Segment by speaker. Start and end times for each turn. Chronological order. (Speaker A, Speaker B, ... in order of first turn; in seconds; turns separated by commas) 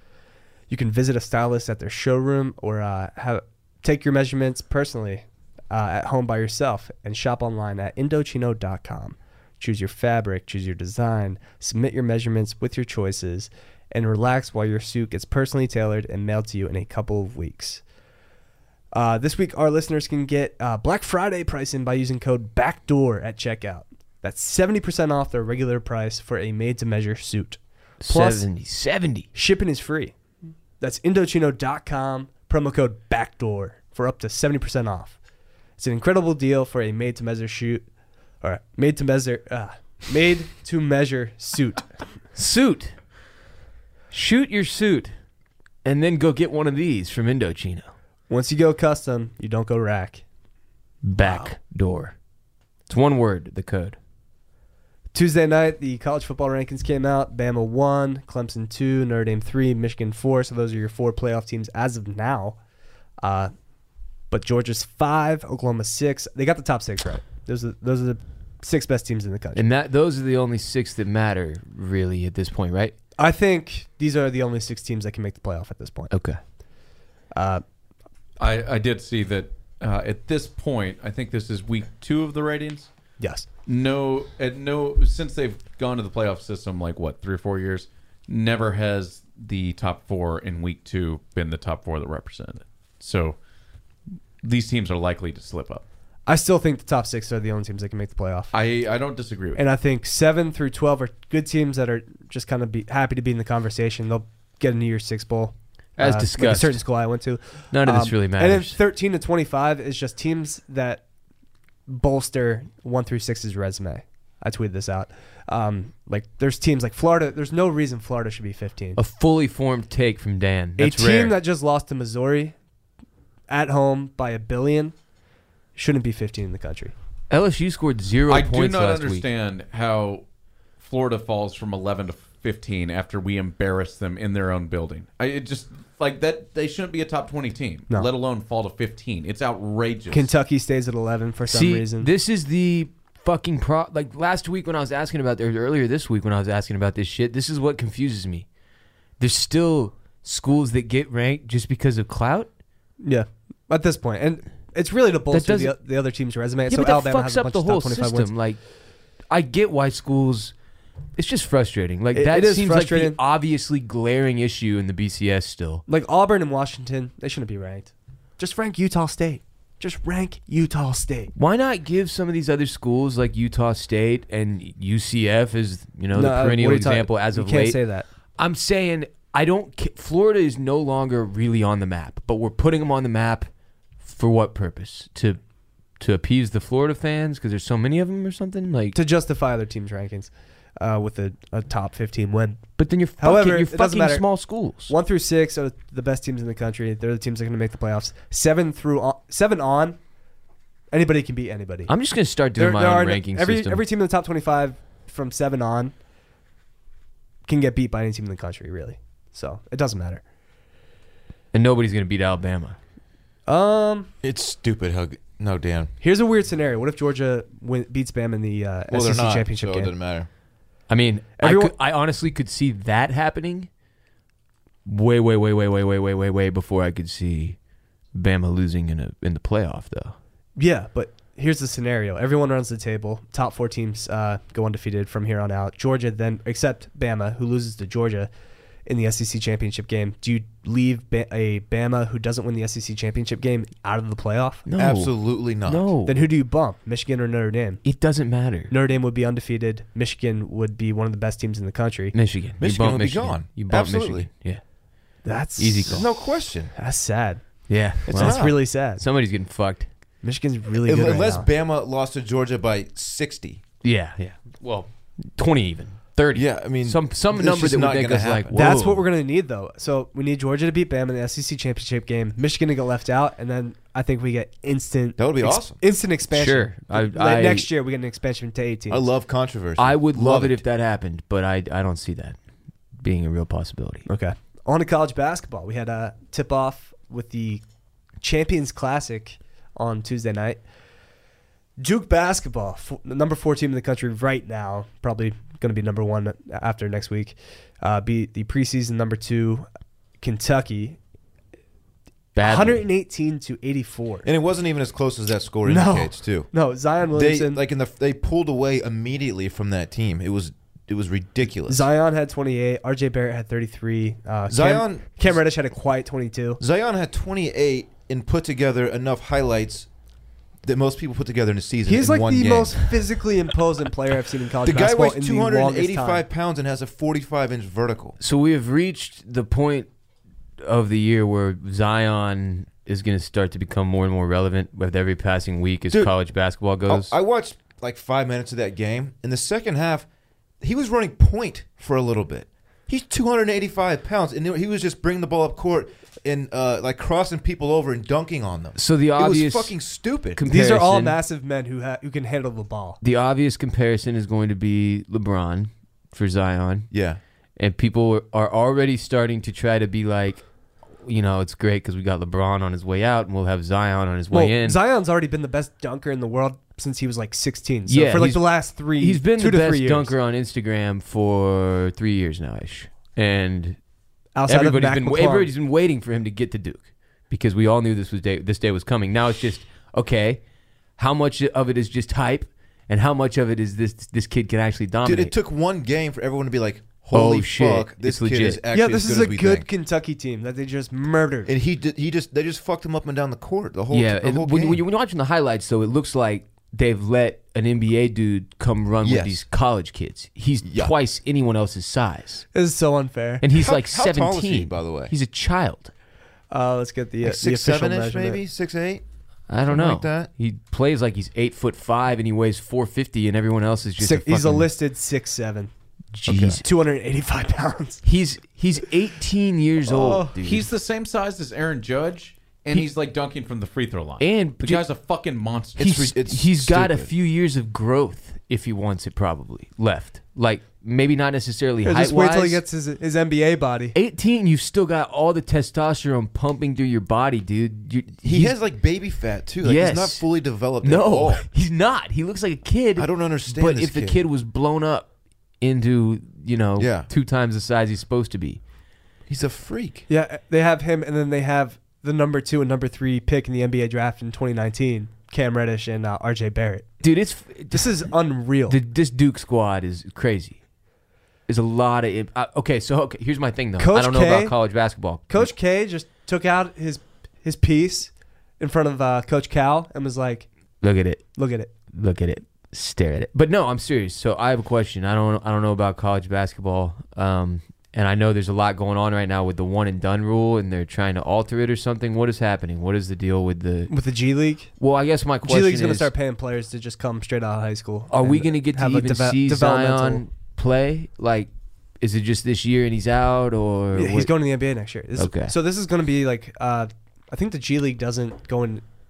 Speaker A: 0.7-17.8, Speaker A: 18.9-28.4, Speaker B: 28.0-29.3, Speaker A: 29.3-30.1, Speaker A: 30.8-35.2, Speaker A: 35.8-37.9, Speaker A: 38.4-41.9, Speaker B: 42.3-43.0, Speaker B: 44.1-45.1, Speaker B: 45.8-47.9, Speaker A: 48.3-50.2, Speaker B: 51.0-52.1, Speaker A: 51.2-51.5, Speaker B: 52.9-54.0, Speaker A: 55.1-62.6, Speaker A: 63.2-63.5, Speaker A: 64.3-69.6, Speaker B: 69.5-72.9, Speaker A: 73.2-76.1, Speaker B: 76.1-76.4, Speaker A: 77.3-77.6, Speaker C: 78.4-82.9, Speaker A: 83.2-83.5, Speaker C: 83.7-93.4, Speaker C: 94.4-95.8, Speaker A: 96.3-98.5, Speaker C: 98.5-99.6, Speaker A: 99.5-111.0, Speaker B: 106.0-106.8, Speaker B: 107.7-108.8, Speaker A: 111.9-119.0, Speaker B: 119.0-121.3, Speaker A: 120.8-122.5, Speaker A: 123.5-124.9, Speaker A: 125.8-126.9, Speaker B: 127.3-129.2, Speaker C: 128.3-130.2, Speaker C: 130.8-140.3, Speaker A: 140.1-142.1, Speaker B: 141.5-148.4, Speaker B: 149.2-152.5, Speaker A: 153.0-158.3, Speaker B: 155.3-155.8, Speaker B: 156.7-158.6, Speaker B: 159.3-160.5, Speaker B: 161.2-165.8, Speaker A: 162.1-163.2, Speaker A: 165.9-171.3, Speaker B: 171.3-177.8, Speaker A: 176.1-178.1, Speaker B: 178.4-183.5, Speaker B: 184.0-185.4, Speaker B: 186.0-189.0, Speaker A: 188.9-192.6, Speaker B: 192.8-194.9, Speaker A: 193.2-194.3, Speaker A: 194.9-200.0, Speaker A: 200.9-201.9, Speaker B: 201.9-203.8, Speaker A: 202.6-205.9, Speaker A: 207.5-210.2, Speaker B: 211.5-212.8, Speaker A: 213.5-214.1, Speaker D: 214.2-215.9, Speaker A: 216.0-219.9, Speaker D: 218.9-220.3, Speaker B: 220.9-223.7, Speaker A: 221.4-221.7, Speaker B: 224.8-227.6, Speaker B: 228.1-230.2, Speaker A: 230.6-238.3, Speaker A: 238.8-244.6, Speaker B: 244.7-246.2, Speaker D: 244.8-245.9, Speaker A: 246.1-247.8, Speaker B: 247.8-248.7, Speaker A: 248.7-252.1, Speaker B: 252.1-254.6, Speaker D: 252.6-254.3, Speaker A: 255.2-256.2, Speaker B: 255.6-256.1, Speaker D: 255.8-256.7, Speaker A: 256.7-259.0, Speaker B: 257.7-259.9, Speaker D: 258.1-258.6, Speaker A: 260.2-261.5, Speaker D: 260.7-263.6, Speaker B: 263.8-269.0, Speaker D: 266.3-268.8, Speaker A: 268.5-279.1, Speaker D: 275.2-275.8, Speaker B: 276.3-277.7, Speaker D: 278.9-280.6, Speaker B: 279.8-282.4, Speaker B: 283.0-284.1, Speaker A: 284.1-287.6, Speaker A: 288.2-290.6, Speaker A: 291.8-299.7, Speaker A: 300.2-301.0, Speaker B: 302.3-302.8, Speaker A: 302.4-304.3, Speaker D: 304.2-311.9, Speaker A: 305.6-307.6, Speaker A: 311.7-316.6, Speaker D: 314.5-315.4, Speaker D: 316.6-319.9, Speaker D: 320.6-323.2, Speaker A: 321.9-326.2, Speaker D: 324.6-328.2, Speaker B: 328.2-329.9, Speaker B: 330.6-337.1, Speaker D: 336.8-340.1, Speaker D: 340.6-350.4, Speaker B: 348.8-349.8, Speaker B: 350.3-351.2, Speaker A: 350.5-353.0, Speaker B: 353.0-356.9, Speaker D: 356.9-357.2, Speaker B: 357.6-360.4, Speaker B: 361.0-364.8, Speaker A: 364.3-370.1, Speaker B: 367.9-373.8, Speaker A: 374.3-375.5, Speaker B: 374.5-380.4, Speaker B: 381.0-385.3, Speaker D: 385.0-389.7, Speaker B: 387.1-388.6, Speaker A: 388.7-391.5, Speaker D: 391.4-394.8, Speaker B: 393.9-402.4, Speaker D: 399.0-399.4, Speaker D: 400.6-400.9, Speaker A: 402.5-403.4, Speaker B: 403.4-405.9, Speaker D: 403.5-405.1, Speaker A: 406.5-408.4, Speaker D: 407.2-409.0, Speaker B: 409.5-414.7, Speaker D: 409.7-410.3, Speaker A: 414.0-415.7, Speaker B: 416.1-416.6, Speaker A: 416.6-418.0, Speaker B: 418.0-420.7, Speaker C: 420.4-425.9, Speaker B: 424.2-424.8, Speaker D: 425.8-427.1, Speaker B: 425.8-432.6, Speaker A: 431.8-433.9, Speaker B: 433.9-438.5, Speaker D: 438.2-441.5, Speaker B: 439.6-440.3, Speaker B: 440.8-445.1, Speaker D: 442.9-444.2, Speaker B: 445.6-448.6, Speaker D: 446.8-447.1, Speaker D: 449.3-450.1, Speaker A: 450.1-456.9, Speaker B: 457.0-458.1, Speaker A: 457.7-458.8, Speaker B: 458.7-460.6, Speaker B: 461.5-465.5, Speaker A: 463.8-464.6, Speaker A: 465.3-470.5, Speaker B: 470.8-471.4, Speaker A: 471.4-471.7, Speaker B: 471.9-483.9, Speaker A: 483.9-484.7, Speaker B: 484.8-486.1, Speaker A: 485.4-490.2, Speaker B: 488.1-491.5, Speaker B: 492.0-494.3, Speaker A: 493.9-498.8, Speaker B: 495.2-495.5